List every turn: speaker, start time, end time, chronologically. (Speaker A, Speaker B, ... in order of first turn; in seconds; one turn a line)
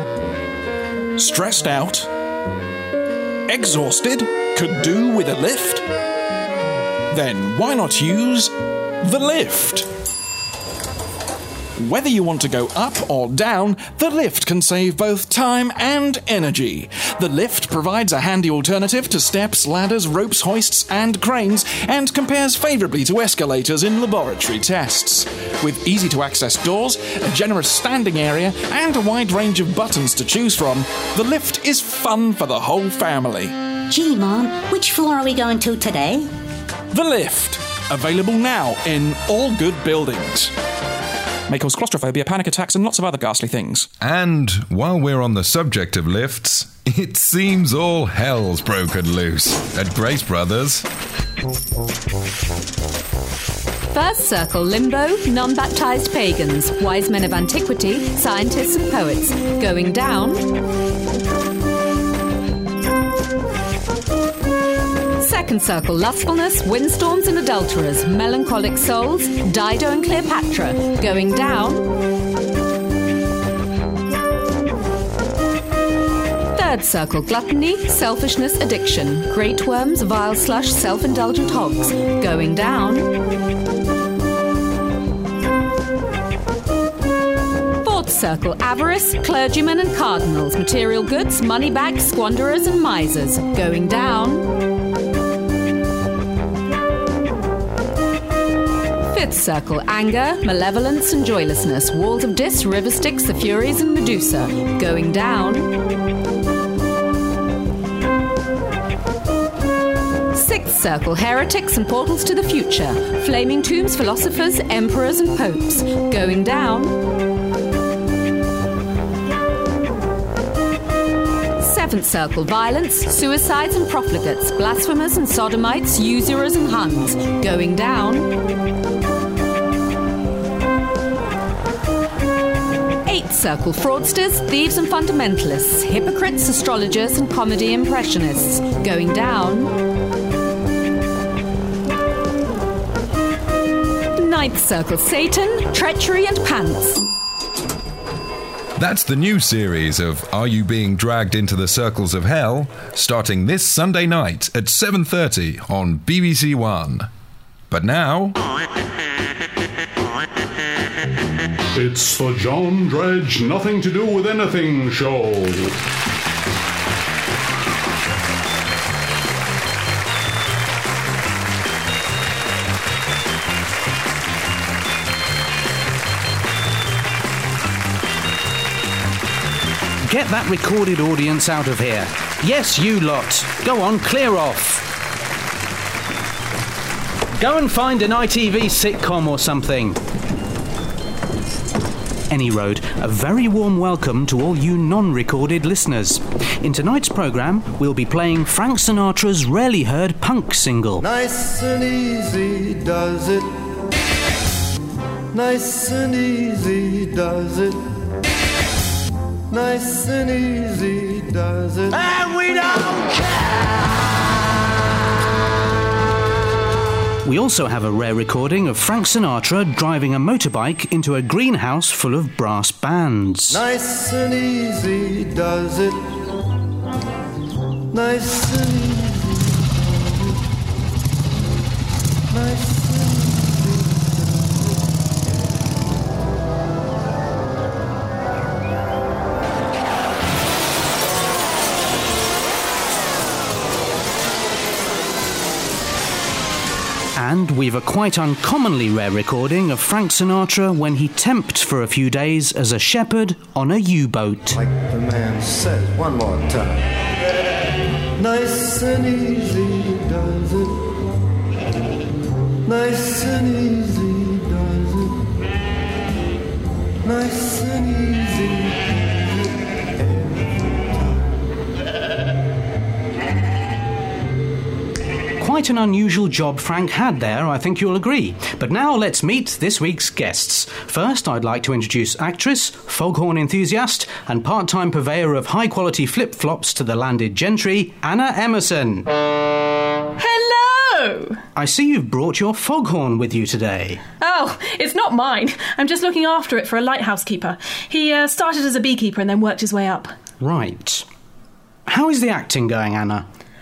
Speaker A: 1.2-2.1
Speaker A: 3.5-5.8
Speaker A: 7.1-9.9
Speaker A: 11.8-33.5
Speaker B: 33.9-36.3
Speaker A: 36.9-40.5
Speaker A: 41.5-43.9
Speaker C: 44.0-50.8
Speaker D: 53.9-60.5
Speaker D: 65.2-71.9
Speaker D: 76.5-83.1
Speaker D: 87.8-94.5
Speaker D: 99.1-105.7
Speaker D: 110.3-116.9
Speaker D: 121.6-128.3
Speaker D: 133.1-139.7
Speaker D: 144.2-147.0
Speaker C: 148.8-157.1
Speaker C: 157.7-158.4
Speaker E: 161.8-165.4
Speaker F: 180.1-184.8
Speaker F: 187.3-190.0
Speaker F: 192.3-201.1
Speaker G: 201.0-203.5
Speaker G: 205.3-207.8
Speaker G: 209.5-212.9
Speaker F: 217.2-223.6
Speaker G: 223.5-226.0
Speaker G: 227.9-230.3
Speaker G: 232.3-234.4
Speaker F: 247.2-254.6
Speaker G: 254.7-256.8
Speaker G: 258.2-260.8
Speaker G: 262.6-265.2
Speaker G: 267.0-268.9
Speaker F: 275.4-289.1
Speaker H: 290.2-291.4
Speaker F: 291.6-294.0
Speaker H: 294.2-300.1
Speaker F: 300.4-301.1
Speaker F: 301.9-303.2